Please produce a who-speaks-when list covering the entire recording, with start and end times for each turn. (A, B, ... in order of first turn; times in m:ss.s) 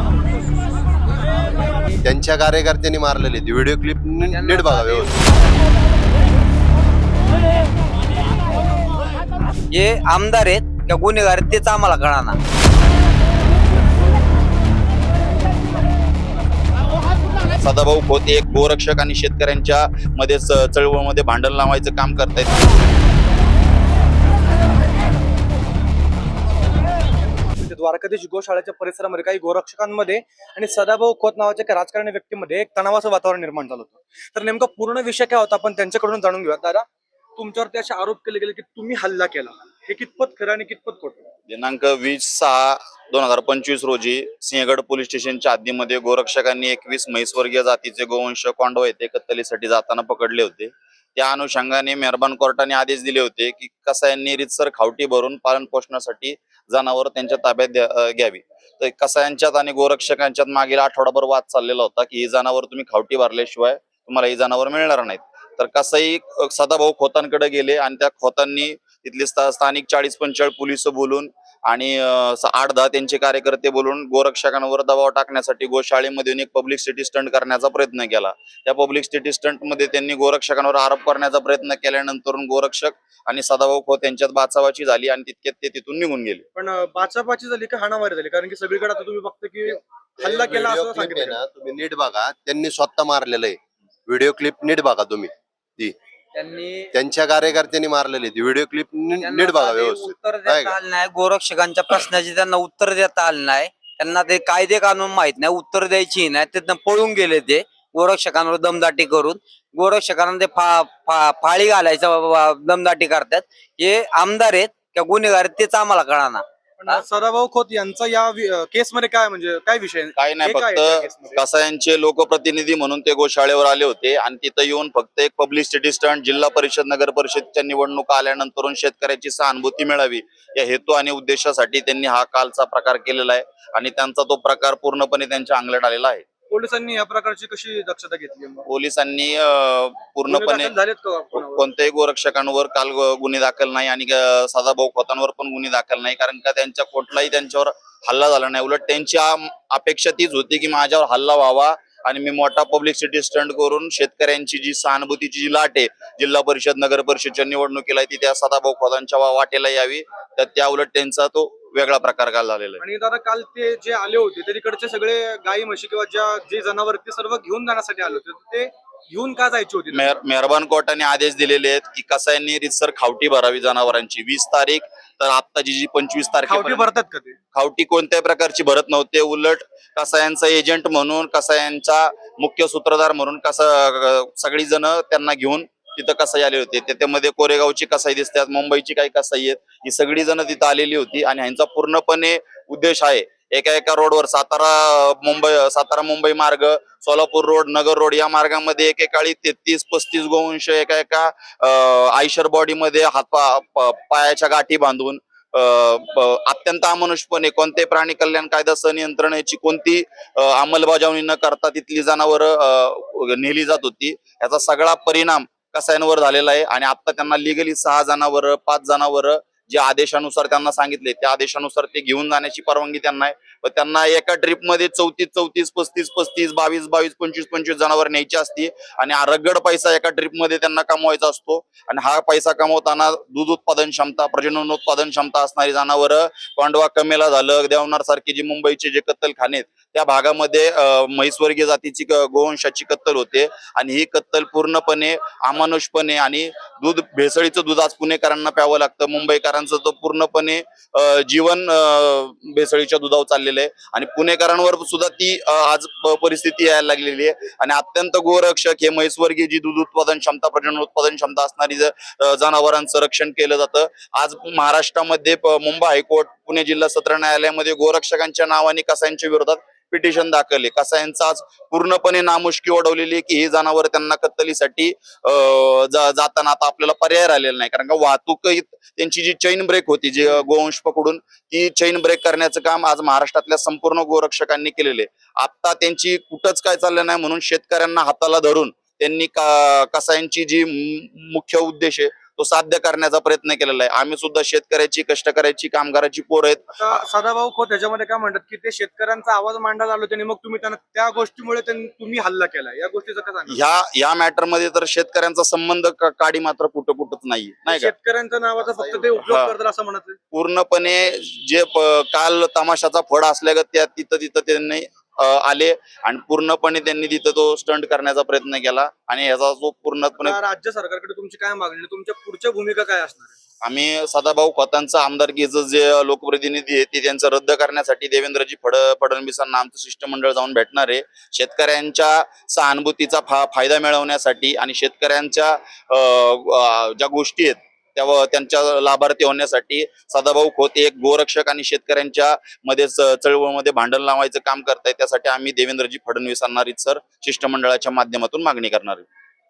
0:02.0-0:05.2 A
0:04.3-0:05.2 B
0:09.7-0:12.4 B
0:17.6-0:22.7 C
0:27.6-0:41.3 D
0:41.5-1:26.4 C
1:26.6-1:31.4 D
1:29.7-1:35.9 A
1:36.3-1:36.9 B
1:36.9-1:40.8 A
1:39.2-1:57.0 B
1:56.8-2:01.4 D
2:00.2-2:16.2 C
2:16.5-2:18.6 D
2:18.7-2:20.7 C
2:20.3-2:21.7 D
2:21.3-2:42.8 C
2:42.8-2:50.1 D
2:49.9-2:56.8 C
2:56.4-2:57.4 D
2:57.5-4:56.7 C
4:56.7-5:03.8 D
5:03.5-5:07.9 C
5:07.6-5:10.2 D
5:09.2-5:09.5 C
5:10.3-5:20.4 C
5:20.2-5:23.3 D
5:23.6-5:49.0 C